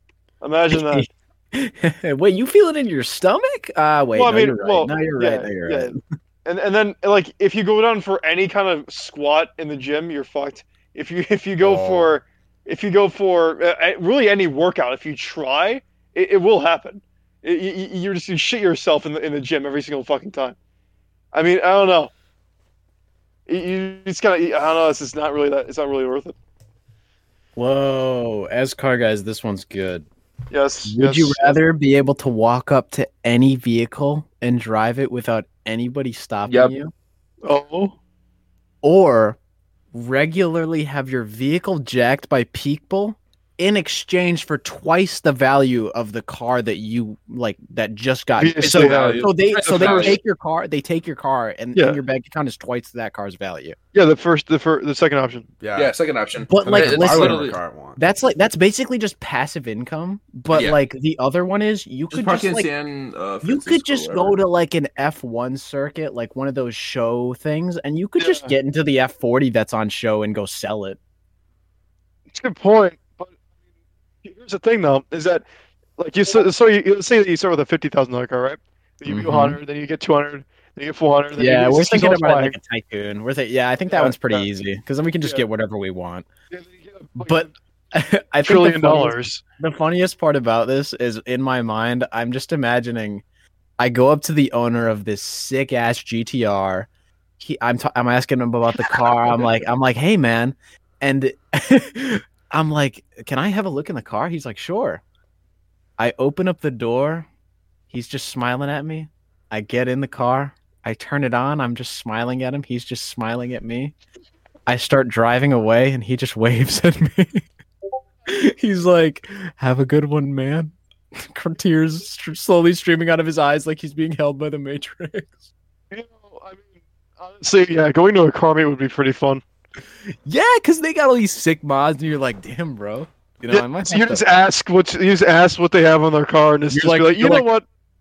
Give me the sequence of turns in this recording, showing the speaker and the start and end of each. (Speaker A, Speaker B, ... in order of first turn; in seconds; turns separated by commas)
Speaker A: 0.4-1.0, Speaker B: 0.7-6.0, Speaker A: 4.1-5.9, Speaker A: 6.4-20.6, Speaker C: 11.6-12.2, Speaker A: 21.3-22.1, Speaker A: 23.5-26.3, Speaker B: 27.6-30.1, Speaker A: 30.5-31.6, Speaker B: 30.9-36.9, Speaker D: 36.5-36.7, Speaker A: 37.4-38.0, Speaker B: 38.8-39.4, Speaker B: 39.9-53.8, Speaker A: 48.4-50.2, Speaker D: 48.6-50.2, Speaker A: 53.9-55.5, Speaker C: 55.6-56.0, Speaker D: 55.7-57.6, Speaker B: 56.5-62.7, Speaker C: 56.6-58.0, Speaker D: 60.5-60.8, Speaker D: 62.1-64.4, Speaker B: 63.4-71.0, Speaker A: 68.2-68.5, Speaker A: 72.3-73.3, Speaker A: 74.2-75.4, Speaker A: 76.0-82.5, Speaker B: 79.1-79.6, Speaker B: 81.4-86.3, Speaker A: 83.9-84.5, Speaker A: 86.5-87.5, Speaker B: 87.2-93.2, Speaker A: 88.4-89.4, Speaker B: 93.8-96.9, Speaker B: 97.4-105.0, Speaker B: 106.0-107.3, Speaker B: 107.9-113.9, Speaker B: 114.7-117.4, Speaker B: 118.2-125.4, Speaker A: 125.9-126.6, Speaker A: 127.2-129.4, Speaker B: 130.2-134.2, Speaker A: 133.5-137.6, Speaker B: 136.7-137.5